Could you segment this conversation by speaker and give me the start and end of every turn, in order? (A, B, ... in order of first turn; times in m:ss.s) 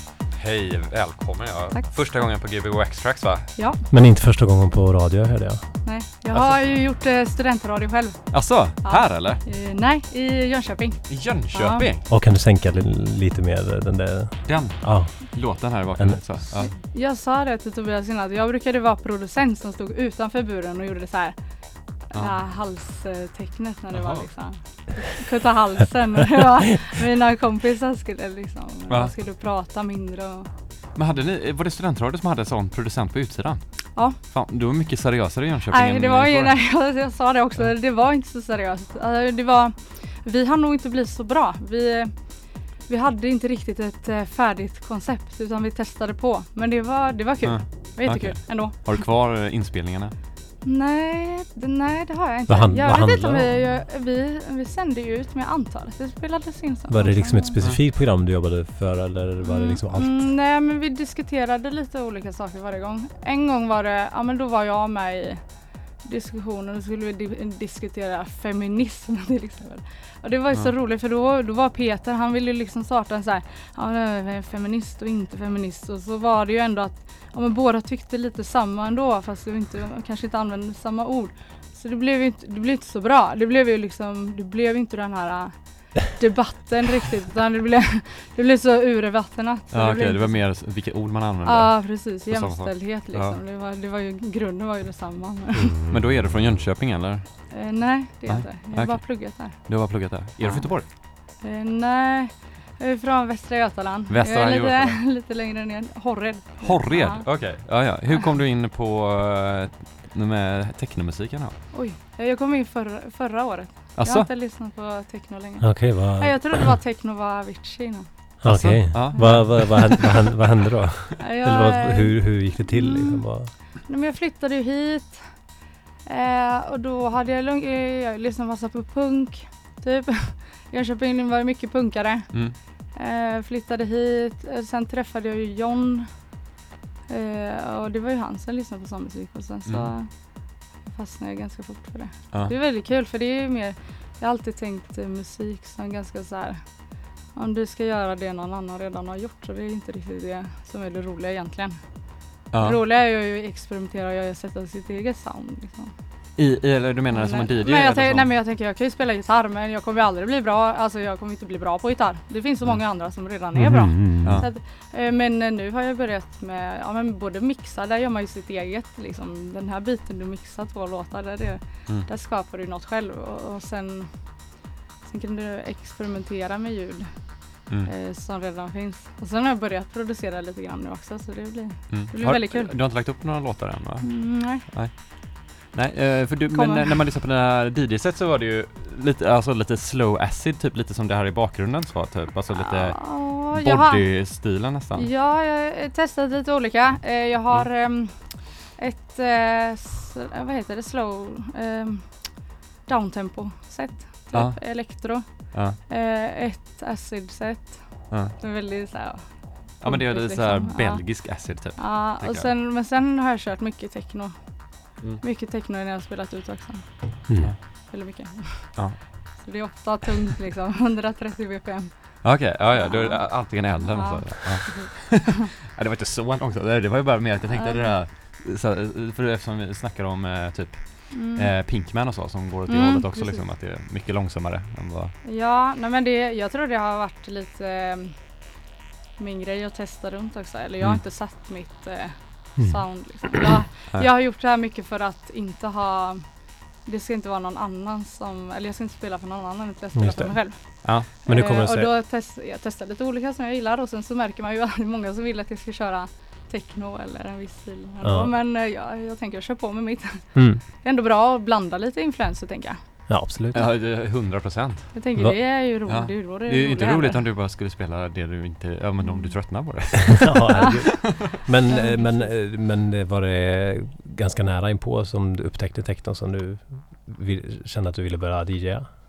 0:00.4-0:03.6 A
0:03.6-0:03.8 B
0:03.9-0:05.9 C
0:05.8-0:11.9 B
0:06.3-0:06.6 A
0:08.3-0:09.4 A
0:11.1-0:12.0 A
0:12.1-0:16.4 C
0:14.4-0:16.7 A
0:16.5-0:30.5 B
0:23.9-0:24.3 A
0:30.9-0:37.0 A
0:35.7-0:49.0 B
0:47.4-0:50.1 A
0:50.6-0:57.6 B
0:52.5-0:53.6 C
0:56.9-1:00.3 C
0:59.4-1:30.5 B
1:29.7-1:33.4 A
1:31.4-1:35.7 B
1:35.5-1:36.4 C
1:35.9-1:40.9 A
1:37.5-1:47.8 B
1:44.1-1:45.0 A
1:46.6-1:51.6 A
1:51.7-1:58.3 B
1:54.0-1:54.3 A
1:55.6-1:56.7 C
1:58.4-2:03.5 C
1:58.4-1:59.9 A
1:59.1-1:59.6 B
2:01.2-2:16.4 B
2:17.1-2:35.9 B
2:19.7-2:19.9 A
2:32.5-2:32.8 A
2:36.4-2:38.3 A
2:37.1-3:02.7 B
2:43.5-2:44.4 C
2:44.2-2:44.5 A
3:01.9-3:15.1 A
3:04.0-3:04.6 B
3:06.5-3:06.9 B
3:12.6-3:14.4 B
3:15.0-3:45.3 B
3:24.3-3:25.8 A
3:28.1-3:28.4 A
3:29.8-3:32.5 A
3:35.0-3:35.2 A
3:37.3-3:37.5 C
3:38.8-3:39.5 A
3:42.2-3:55.2 A
3:47.5-3:48.0 B
3:51.1-3:51.5 B
3:52.7-3:53.5 B
3:55.2-3:58.4 B
3:59.2-4:23.2 B
4:02.6-4:03.4 C
4:09.9-4:11.9 C
4:10.8-4:11.1 A
4:18.0-4:18.3 C
4:20.4-4:20.6 C
4:23.1-4:23.6 C
4:23.5-4:31.0 A
4:24.9-4:27.2 B
4:29.0-4:29.4 B
4:30.2-4:38.9 C
4:30.6-4:32.3 B